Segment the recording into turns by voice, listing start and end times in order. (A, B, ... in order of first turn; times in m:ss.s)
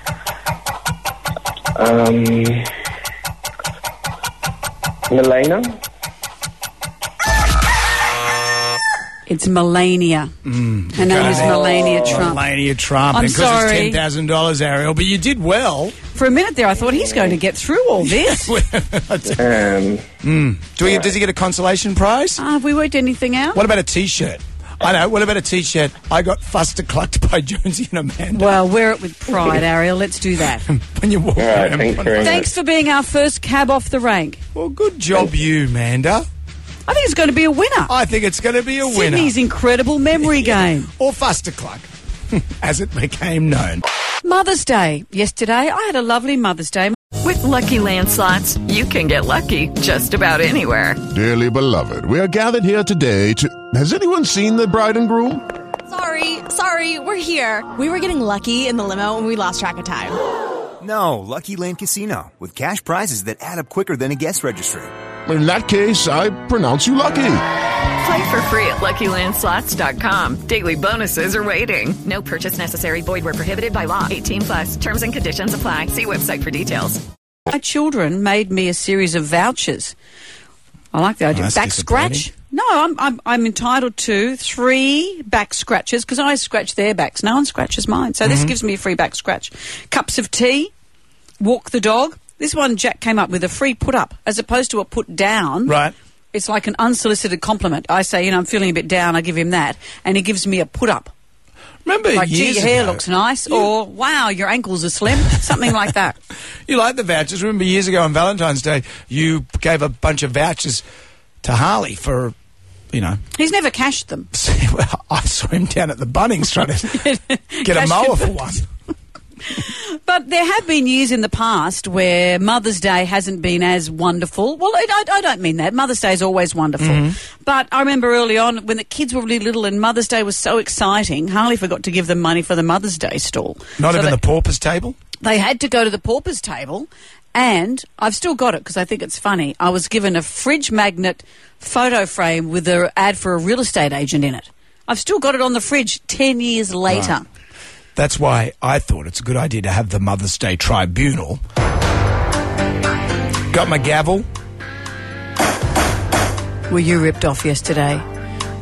0:01.8-0:02.7 A
0:05.1-0:05.8 A
0:09.3-0:10.3 B
0:10.4-0:16.0 C
0:10.9-0:12.4 B
0:13.1-0:14.0 B
0:16.1-0:18.5 B
0:16.8-0:17.4 A
0:18.0-0:19.4 C
0:19.4-0:20.1 A
0:20.2-0:22.4 C
0:20.8-0:21.1 A
0:22.4-0:23.6 B
0:23.5-0:28.6 C
0:28.3-0:30.6 B
0:29.3-0:29.6 C
0:30.6-0:32.5 C
0:31.4-0:32.5 A
0:32.2-0:34.4 B
0:34.5-0:36.2 C
0:36.9-0:37.9 B
0:37.9-0:39.3 C
0:38.8-0:40.9 B
0:40.3-0:43.8 C
0:44.2-0:47.0 B
0:47.2-0:51.0 D
0:51.1-0:55.4 E
0:55.9-1:00.2 F
1:00.8-1:04.9 G
1:05.2-1:07.4 E
1:08.0-1:17.0 D
1:17.5-1:19.9 B
1:20.9-1:30.7 B
1:21.3-1:22.3 C
1:28.2-1:28.5 C
1:31.4-1:35.8 B
1:35.6-1:35.9 C
1:36.3-1:41.1 B
1:41.8-1:43.6 C
1:42.1-1:46.2 B
1:46.7-1:50.8 C
1:51.4-1:52.3 C
1:52.9-1:53.2 C
1:53.3-1:54.3 B
1:54.3-1:57.0 C
1:57.0-1:58.4 B
1:57.6-1:58.6 C
1:59.5-2:14.2 B
2:06.8-2:07.2 C
2:13.8-2:15.0 C
2:15.2-2:27.2 B
2:26.9-2:27.2 C
2:28.0-2:31.4 C
2:33.5-2:34.2 C
2:36.7-2:38.0 B